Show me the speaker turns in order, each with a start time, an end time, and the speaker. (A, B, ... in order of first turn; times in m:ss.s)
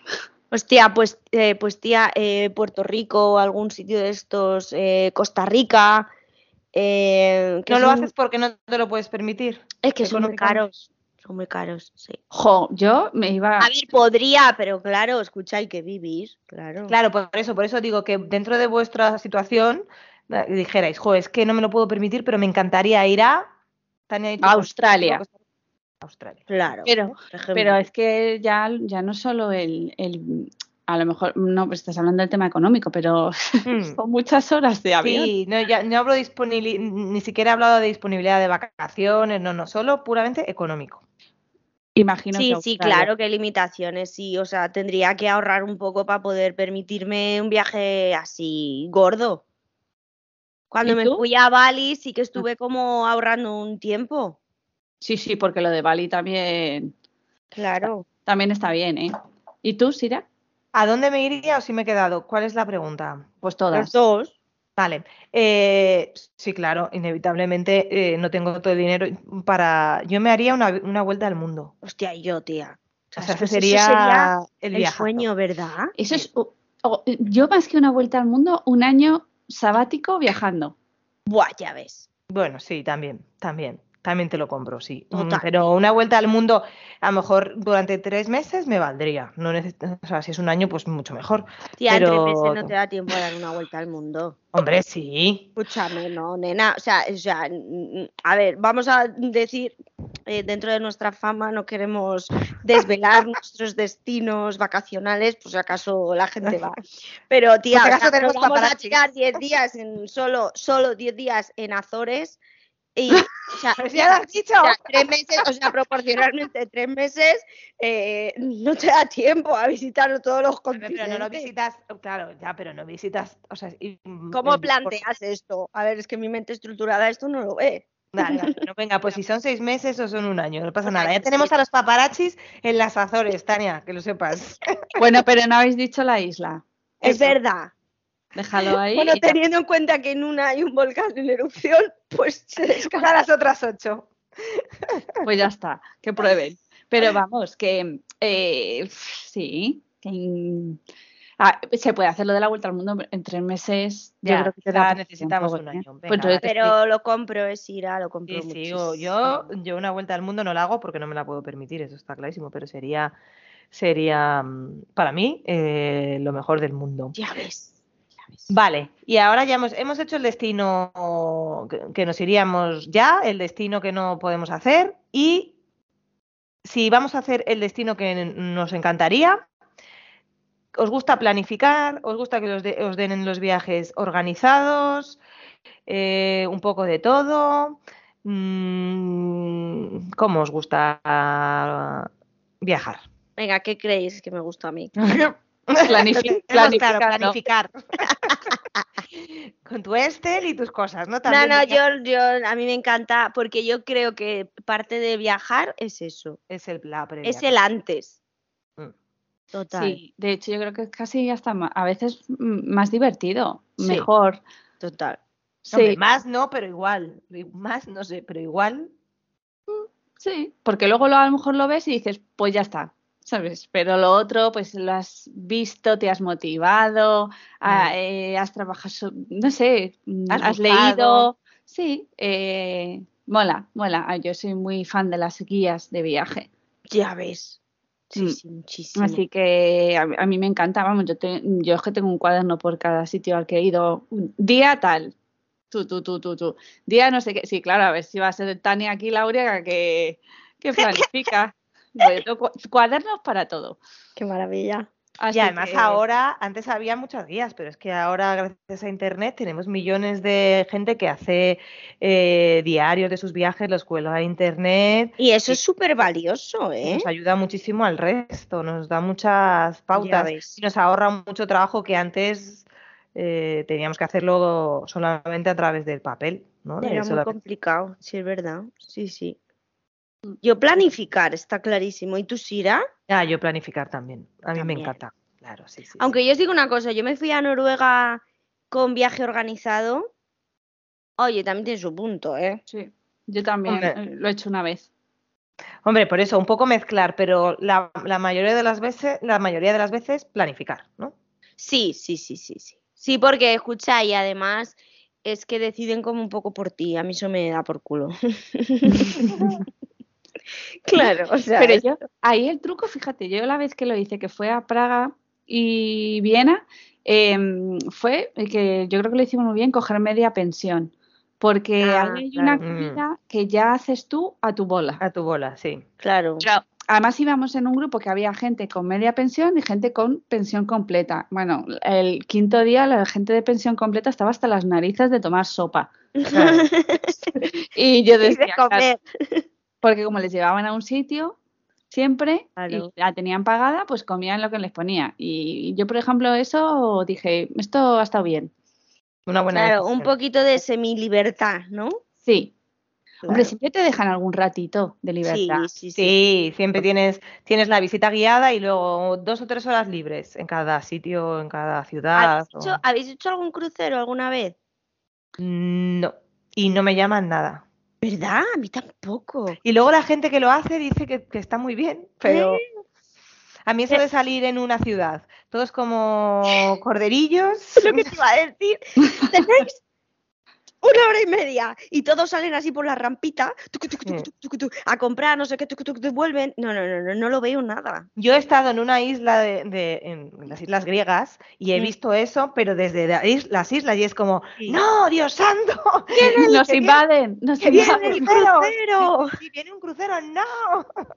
0:00.5-0:06.1 A
0:06.7-0:08.1 A
0:07.7-0:10.6 B
0:09.8-0:12.2 A
0:12.3-0:13.7 C
0:13.6-0:17.0 A
0:16.9-0:23.5 B
0:24.1-0:25.3 B
0:24.4-0:25.2 C
0:26.0-0:26.5 B
0:26.5-0:27.8 A
0:26.8-0:35.3 C
0:33.6-0:34.0 B
0:35.0-0:41.0 B
0:42.0-0:43.1 C
0:42.3-0:49.4 A
0:50.7-0:54.4 A
0:50.8-0:51.2 C
0:55.0-0:56.9 C
0:57.5-0:58.0 A
0:58.2-1:00.2 C
1:00.7-1:03.3 B
1:03.4-1:03.9 C
1:03.7-1:04.3 A
1:04.8-1:11.7 B
1:11.8-1:16.0 A
1:13.2-1:15.3 B
1:16.0-1:20.7 C
1:21.3-1:22.1 A
1:22.3-1:33.2 B
1:25.1-1:25.7 A
1:31.8-1:34.4 A
1:34.5-1:35.5 B
1:35.6-1:39.7 A
1:40.2-1:46.7 A
1:47.3-1:52.4 A
1:47.7-1:49.0 B
1:53.0-2:01.5 A
1:53.8-1:55.0 B
2:00.7-2:05.0 B
2:04.3-2:08.5 A
2:08.1-2:15.0 B
2:10.8-2:11.5 A
2:15.0-2:16.6 C
2:17.0-2:17.7 A
2:17.0-2:17.3 B
2:18.4-2:19.4 C
2:18.9-2:23.1 A
2:22.8-2:25.0 B
2:25.2-2:30.8 C
2:31.4-2:36.7 C
2:34.2-2:36.4 B
2:36.4-2:39.5 A
2:38.3-2:43.1 B
2:43.7-2:47.1 B
2:47.1-2:47.8 A
2:48.5-2:55.5 B
2:56.6-2:59.4 B
3:00.7-3:05.2 B
3:05.9-3:12.1 B
3:12.6-3:13.0 B
3:13.4-3:14.9 A
3:15.0-3:17.8 B
3:15.8-3:17.4 C
3:18.1-3:18.4 A
3:19.1-3:21.8 B
3:21.2-3:26.4 A
3:26.5-3:27.5 B
3:27.2-3:28.2 A
3:29.5-3:30.0 A
3:29.8-3:34.4 C
3:33.8-3:34.1 B
3:34.8-3:35.2 A
3:35.7-3:36.0 C
3:35.7-3:38.9 B
3:39.7-3:56.5 C
3:47.6-3:47.9 B
3:50.4-3:51.3 A
3:56.9-3:57.6 A
3:58.1-3:59.2 A
3:58.9-4:05.1 C
4:05.7-4:13.8 C
4:10.8-4:11.0 A
4:14.2-4:14.9 A
4:15.2-4:16.0 C
4:15.3-4:25.6 B
4:25.2-4:27.1 A
4:26.8-4:37.3 B
4:29.9-4:30.6 A
4:36.8-4:39.4 A
4:40.4-4:42.8 A
4:43.1-4:46.1 B
4:44.5-4:45.0 A
4:46.0-4:50.1 A
4:51.2-4:52.6 A
4:52.7-4:54.9 C
4:53.7-4:53.9 B
4:55.8-5:01.1 B
5:01.6-5:09.5 A
5:08.9-5:09.2 C
5:09.3-5:09.6 B
5:10.8-5:11.8 A
5:11.6-5:25.0 C
5:21.8-5:22.6 A
5:22.6-5:23.0 B
5:25.0-5:25.8 B
5:26.0-5:26.4 A
5:26.4-5:35.9 C
5:36.2-5:37.4 A
5:36.3-5:36.7 B
5:37.7-5:38.8 C
5:38.2-5:39.4 A
5:39.8-5:41.4 C
5:41.9-5:48.5 C
5:42.6-5:42.9 A
5:49.3-5:50.1 B
5:49.5-5:52.0 A
5:52.2-5:52.5 C
5:53.2-5:53.5 A
5:53.2-5:55.6 C
5:55.2-5:56.1 A
5:56.0-6:02.8 B
6:02.2-6:04.5 A
6:05.4-6:07.6 B
6:08.0-6:09.6 A
6:09.6-6:12.6 B
6:12.2-6:12.6 A
6:13.6-6:18.1 B
6:17.8-6:19.8 A
6:19.0-6:19.3 C
6:20.8-6:28.1 A
6:28.2-6:36.7 B
6:36.1-6:37.0 A
6:36.2-6:38.2 C
6:37.6-6:40.9 B
6:37.7-6:39.4 A